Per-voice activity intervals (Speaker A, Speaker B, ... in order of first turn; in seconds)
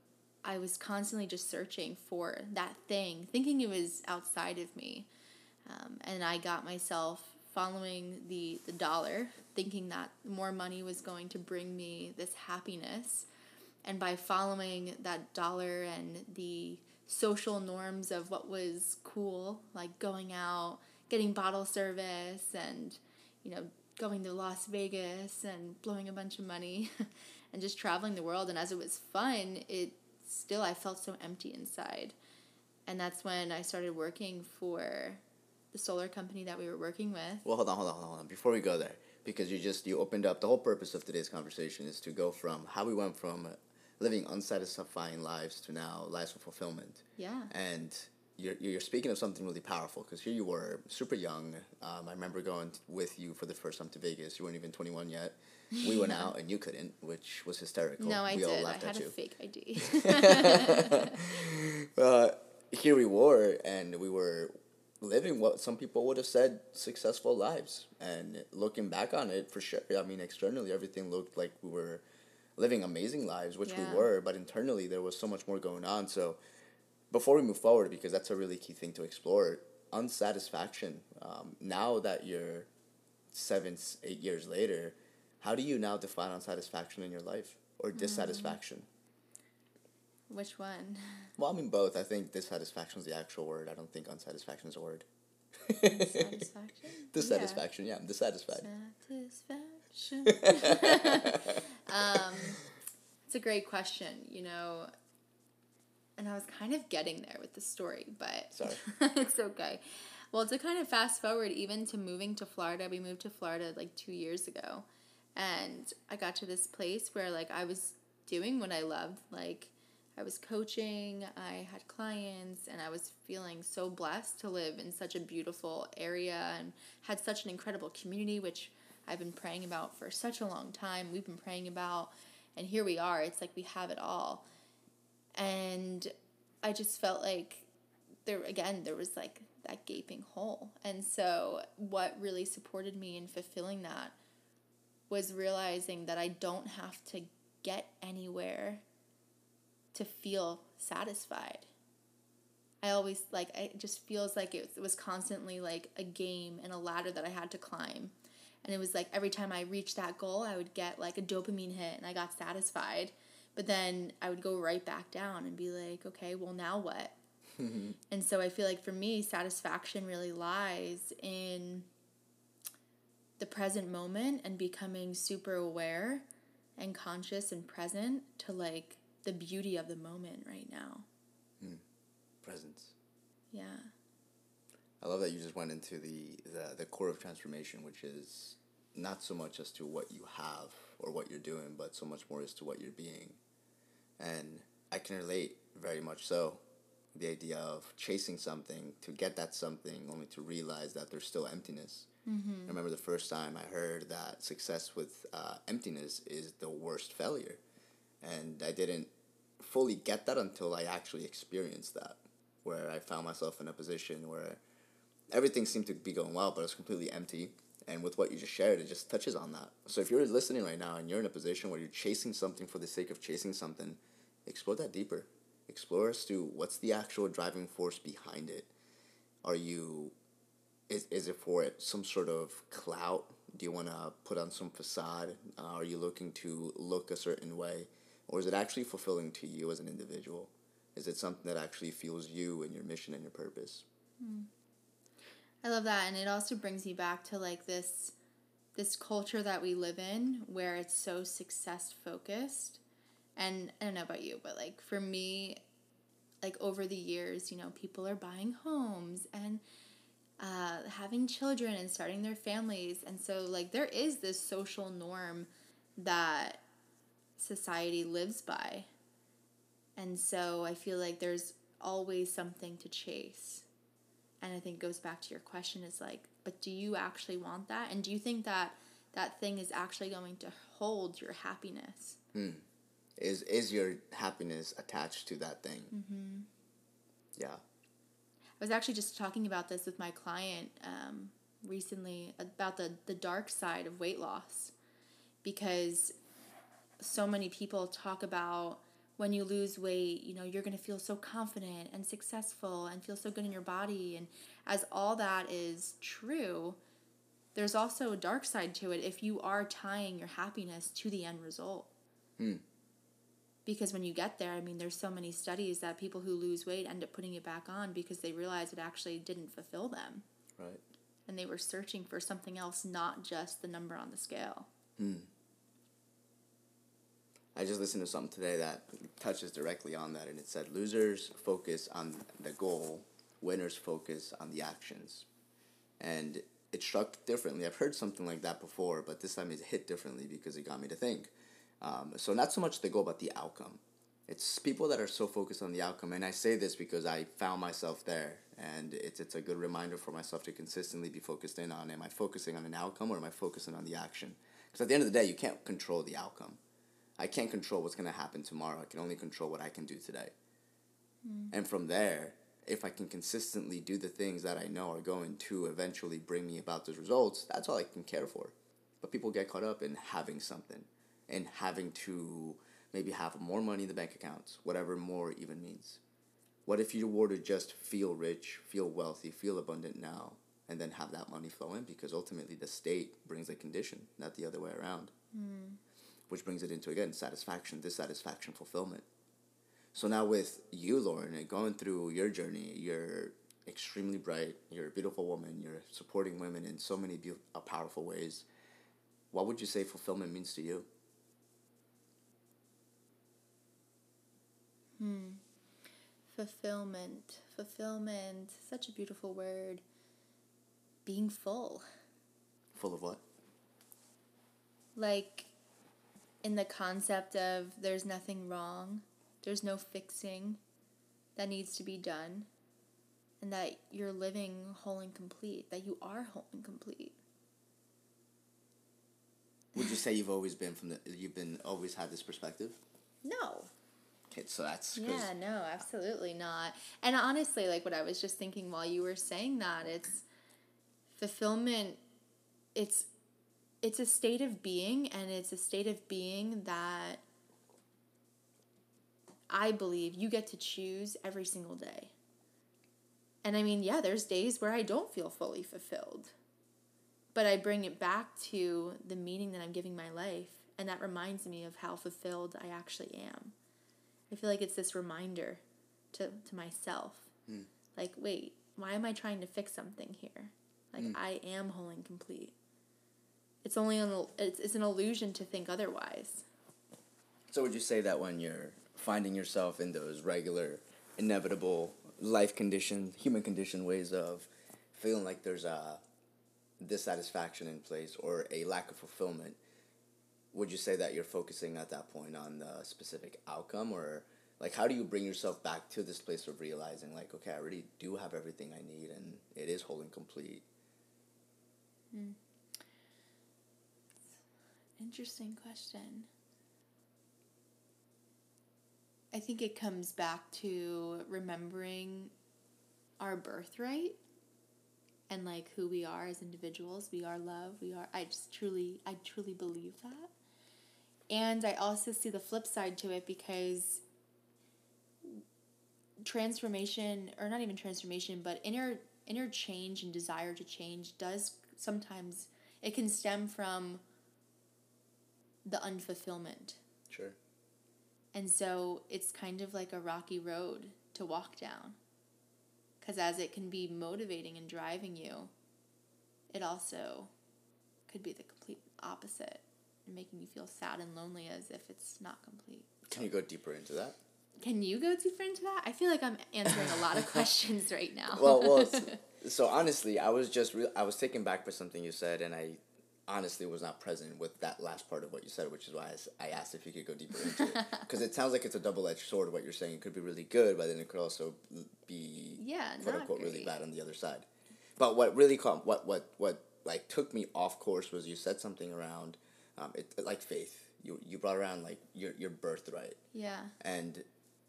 Speaker A: 0.5-5.1, 5.7-13.3, 13.8-32.2, 32.9-35.2, 35.7-37.5, 47.2-47.5, 55.9-56.3, 58.0-61.2, 73.7-74.1, 88.0-88.6, 90.3-91.3, 95.9-97.6, 98.5-102.6, 103.3-104.9, 106.2-134.5, 135.3-136.1, 136.6-137.7, 138.2-144.2, 145.1-148.8, 149.9-151.7, 152.8-167.2, 168.1-171.9, 173.4-181.1, 183.5-183.9, 202.3-202.8, 244.2-244.5, 245.6-248.2, 248.8-252.8, 253.4-255.6, 256.4-259.6, 260.4-266.6, 267.4-268.9, 270.0-273.7, 274.4-282.2, 285.9-286.5, 288.6-294.7, 295.4-296.2, 297.0-306.8, 307.6-311.9, 313.7-320.3, 321.3-324.7, 361.2-361.5, 385.3-385.8, 405.0-405.4, 406.3-409.8, 411.1-411.9, 414.9-415.5, 416.4-420.6, 421.4-422.5, 423.4-427.2, 433.2-433.7, 434.9-440.3, 441.1-442.0, 442.8-443.1, 443.8-447.2, 449.5-452.1, 453.4-456.4, 457.3-463.6, 464.3-467.3, 467.9-472.6, 473.6-476.5, 502.1-502.4, 505.0-506.3, 509.3-512.3, 513.2-514.2, 515.3-520.3, 521.3-524.0, 526.2-534.0, 535.6-536.8, 538.3-542.0, 543.0-545.5, 546.5-547.3, 548.1-552.9, 554.6-559.2, 567.4-568.1, 572.6-573.8, 583.3-583.8
Speaker B: 37.5-59.1, 59.8-72.0, 72.6-76.4, 77.1-82.7, 83.3-88.9, 91.4-95.1, 95.6-96.4, 97.1-98.7, 100.2-102.6, 108.5-108.8, 167.6-168.0, 182.4-182.9, 185.0-193.4, 194.2-196.6, 197.1-202.1, 202.7-207.6, 208.2-214.6, 215.3-228.7, 229.4-230.1, 230.9-243.8, 282.3-282.6, 283.2-285.9, 287.4-287.6, 325.0-325.3, 327.6-335.3, 336.0-356.6, 357.2-360.3, 361.5-376.0, 376.7-385.1, 386.3-389.1, 389.9-398.5, 399.3-400.9, 412.7-413.2, 429.7-432.8, 434.3-435.3, 477.5-486.0, 486.8-489.6, 490.5-500.6, 537.1-537.4, 553.1-554.2, 556.8-557.4, 558.3-574.5, 575.0-583.2, 583.8-584.3